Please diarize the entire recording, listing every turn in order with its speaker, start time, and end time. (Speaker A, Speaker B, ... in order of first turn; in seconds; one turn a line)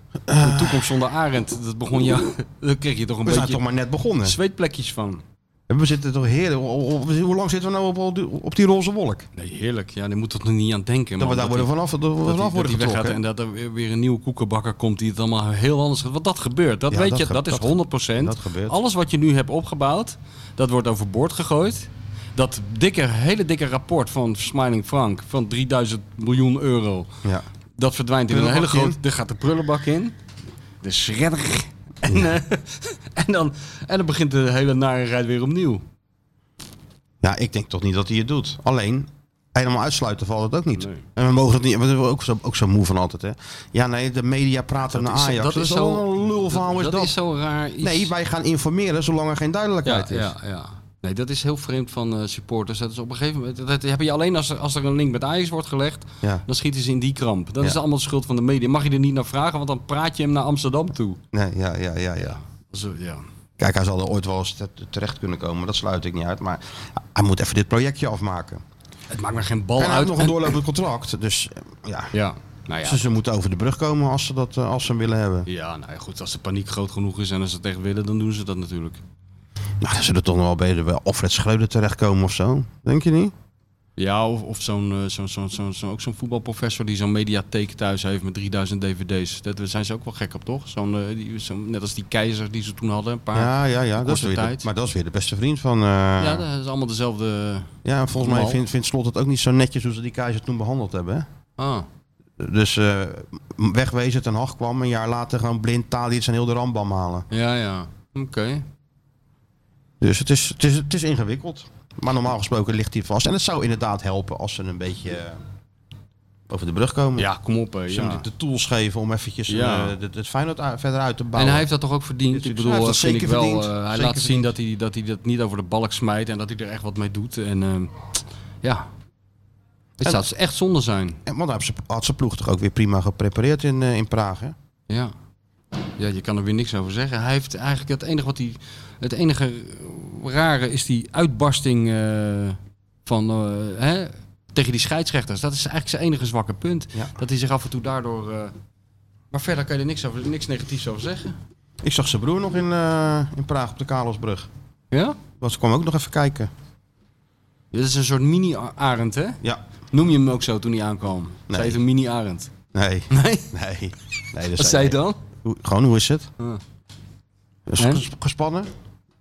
Speaker A: 0.3-0.8
Speaker B: 0.4-3.6
Speaker A: 3.2-4.3
Speaker B: 4.2-5.2
Speaker A: 5.7-9.3
Speaker B: 9.3-11.7
Speaker A: 11.2-13.2
Speaker B: 12.2-27.1
Speaker A: 16.9-18.8
Speaker B: 27.8-30.1
Speaker A: 28.3-29.0
Speaker B: 30.8-35.8
Speaker A: 32.1-32.4
Speaker A: 37.2-47.1
Speaker B: 40.8-41.0
Speaker B: 44.9-48.1
Speaker A: 47.8-50.3
Speaker B: 49.8-61.2
Speaker A: 61.3-62.4
Speaker B: 62.2-63.2
Speaker A: 63.6-68.6
Speaker B: 69.1-70.5
Speaker A: 69.8-72.1
Speaker B: 72.1-73.1
Speaker A: 72.8-75.5
Speaker B: 75.5-79.0
Speaker A: 79.8-83.3
Speaker B: 84.0-94.7
Speaker A: 93.3-96.4
Speaker B: 96.2-98.6
Speaker A: 97.8-101.2
Speaker B: 101.6-101.8
Speaker A: 102.4-107.3
Speaker B: 107.3-108.6
Speaker A: 110.0-115.4
Speaker A: 116.5-117.3
Speaker B: 117.2-118.2
Speaker A: 117.9-121.7
Speaker B: 119.5-120.0
Speaker B: 121.3-128.1
Speaker A: 122.3-124.5
Speaker B: 128.6-128.9
Speaker A: 130.0-130.2
Speaker B: 130.0-131.2
Speaker A: 131.2-134.5
Speaker B: 136.0-148.5
Speaker B: 149.3-151.3
Speaker A: 151.8-154.5
Speaker B: 154.9-155.2
Speaker A: 155.4-156.5
Speaker B: 157.7-159.4
Speaker B: 159.9-162.5
Speaker A: 161.5-161.8
Speaker A: 162.7-166.3
Speaker B: 163.1-163.5
Speaker B: 164.6-165.2
Speaker A: 167.7-168.7
Speaker B: 167.8-168.0